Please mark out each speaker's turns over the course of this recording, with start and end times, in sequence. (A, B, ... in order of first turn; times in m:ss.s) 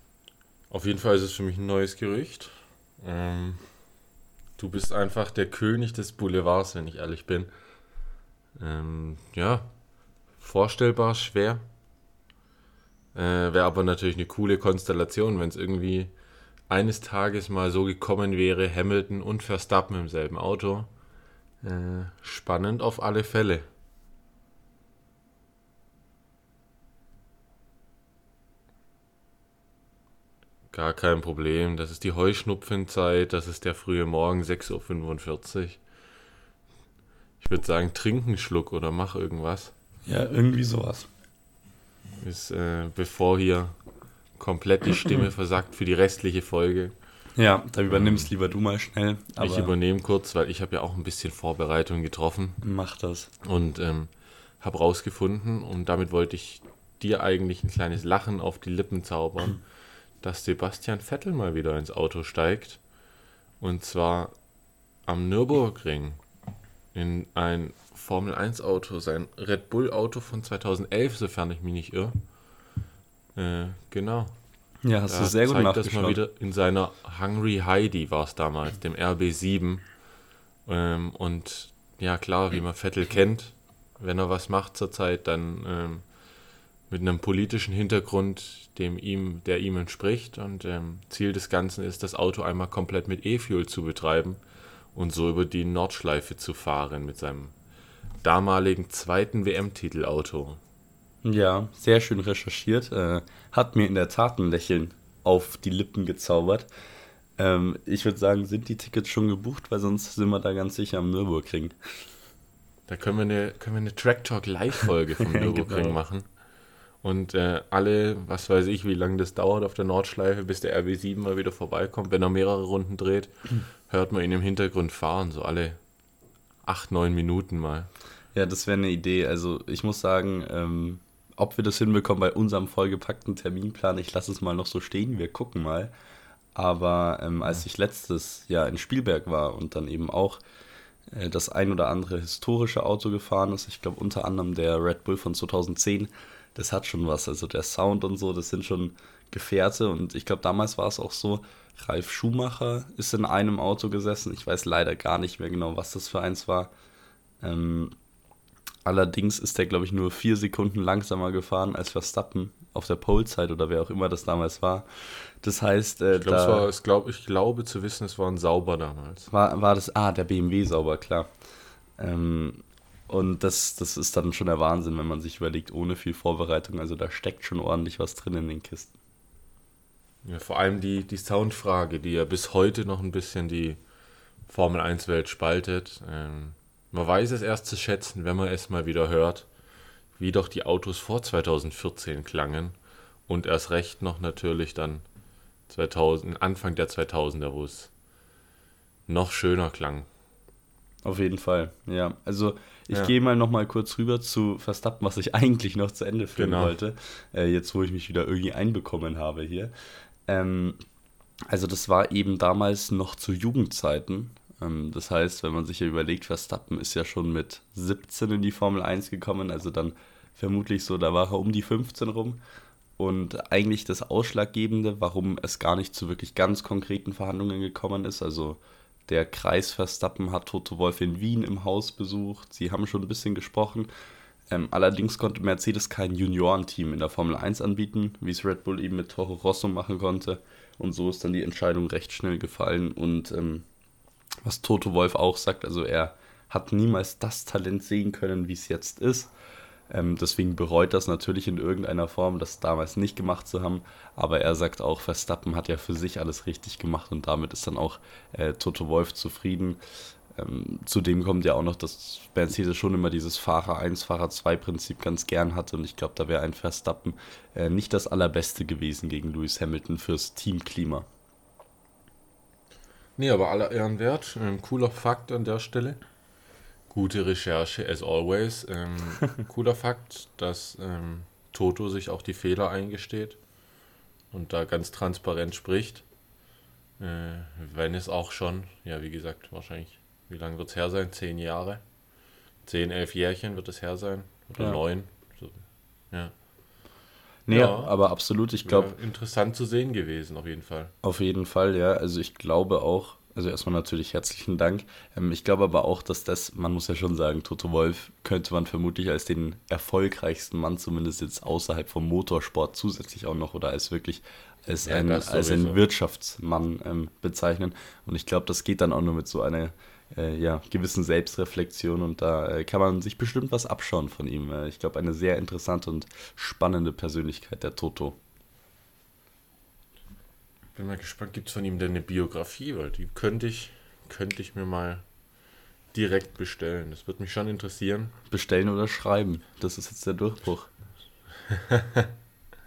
0:00.7-0:03.7 A
0:04.6-0:07.5 A
0:08.6-0:09.7 A
0:10.4-0:11.6 A
0:13.1-0:16.1 A
0:16.7-0:20.9 A
0:21.6-0:23.7 A
0:30.7-0:35.8 A
0:37.4-0:39.7 A
0:40.0-0:41.1 B
0:42.2-0:43.8 A
0:44.4-0:47.0 A
0:47.4-0:49.7 B
0:47.9-0:48.3 A
0:49.4-0:52.6 A
0:52.6-0:53.3 B
0:53.4-0:59.6 A
1:00.2-1:02.8 A
1:03.6-1:04.3 A
1:05.0-1:06.2 A
1:06.9-1:12.2 A
1:13.3-1:14.3 A
1:14.8-1:16.2 B
1:15.1-1:19.8 A
1:20.6-1:26.1 A
1:26.9-1:34.4 A
1:34.9-1:37.5 A
1:38.2-1:40.6 A
1:41.2-1:46.7 B
1:47.4-1:51.7 B
1:52.9-1:56.2 A
1:55.3-1:56.0 B
1:57.0-2:05.8 A
2:06.6-2:07.9 A
2:08.3-2:15.9 B
2:16.5-2:20.4 B
2:21.1-2:36.7 B
2:37.4-2:37.9 B
2:38.8-2:46.7 B
2:46.1-2:49.3 A
2:49.3-2:51.3 B
2:52.0-2:58.9 B
3:00.2-3:03.8 A
3:04.5-3:09.5 A
3:10.2-3:12.8 A
3:13.3-3:15.0 A
3:15.7-3:17.9 A
3:19.1-3:20.1 A
3:21.0-3:29.7 B
3:26.4-3:26.8 A
3:30.3-3:30.8 B
3:31.5-3:42.4 B
3:43.0-3:53.9 B
3:54.5-4:03.6 B
4:04.4-4:09.3 B
4:09.9-4:19.8 B
4:20.3-4:31.1 B
4:33.2-4:36.0 A
4:36.9-4:43.4 A
4:44.3-4:46.0 A
4:47.0-4:51.8 A
4:52.6-4:56.3 A
4:57.5-4:58.9 B
4:57.5-4:57.9 A
4:58.6-5:00.9 A
5:01.0-5:28.2 B
5:14.8-5:15.8 A
5:30.7-5:35.0 A
5:35.9-5:38.1 A
5:38.3-5:40.7 B
5:41.5-5:42.1 A